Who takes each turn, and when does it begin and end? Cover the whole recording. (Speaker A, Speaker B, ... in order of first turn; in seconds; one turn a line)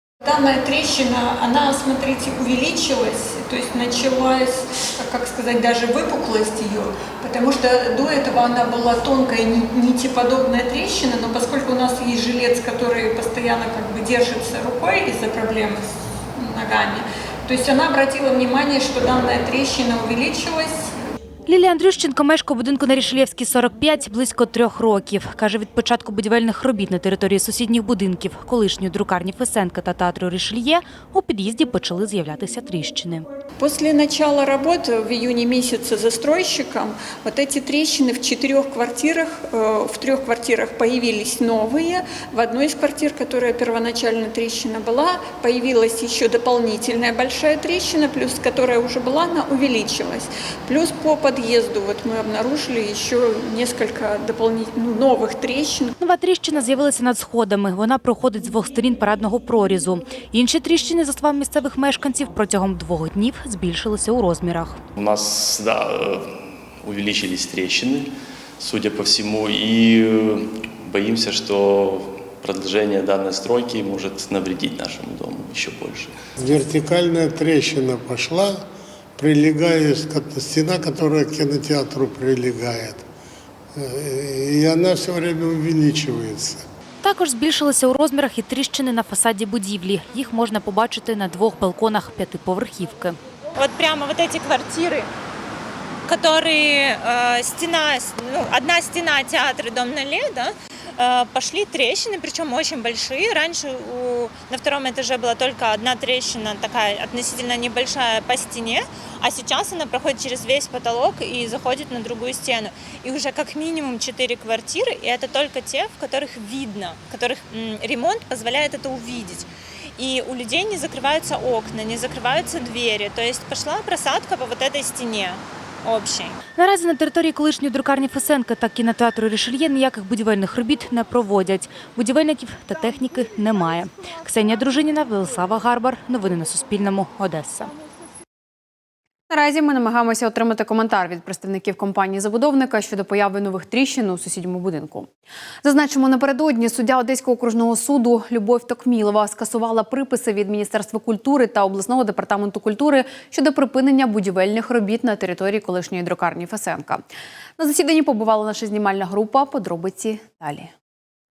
Speaker A: 0.2-20.9
Speaker B: 21.5-33.3
Speaker A: 33.6-55.9
Speaker B: 56.0-64.8
Speaker C: 65.0-65.8
Speaker D: 65.1-66.0
Speaker C: 66.9-68.0
Speaker D: 66.9-67.9
Speaker C: 68.6-69.9
Speaker D: 68.7-70.1
Speaker C: 70.9-71.7
Speaker D: 71.0-78.6
Speaker C: 72.5-76.1
Speaker D: 79.2-83.0
Speaker D: 83.7-86.6
Speaker B: 87.0-93.2
Speaker E: 93.6-95.1
Speaker E: 96.1-126.3
Speaker B: 126.6-137.7
Speaker F: 139.3-145.1
Speaker F: 145.6-157.0
Speaker F: 157.6-160.7